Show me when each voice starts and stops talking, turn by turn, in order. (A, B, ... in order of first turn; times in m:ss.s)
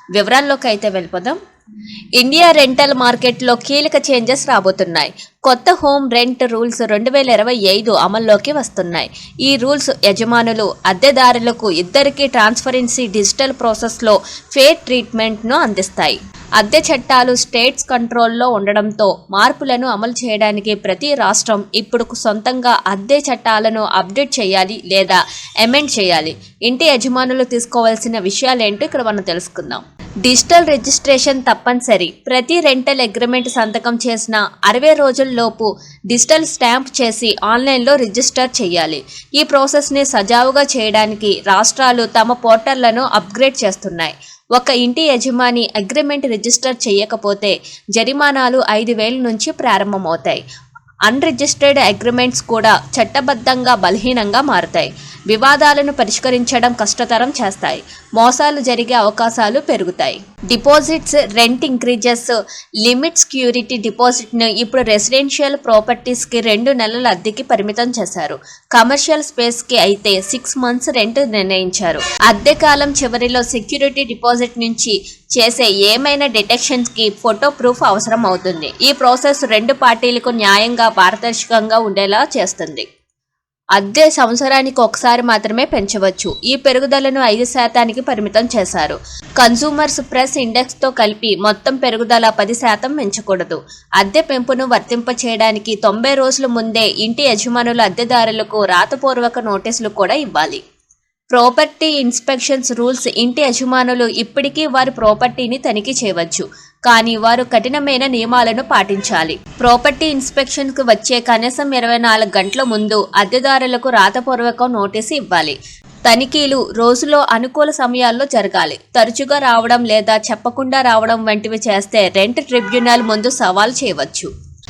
0:00.1-0:01.4 A
0:02.2-0:50.4 A
0:51.1-1:22.8 A
1:23.8-1:40.6 A
1:41.3-2:04.3 A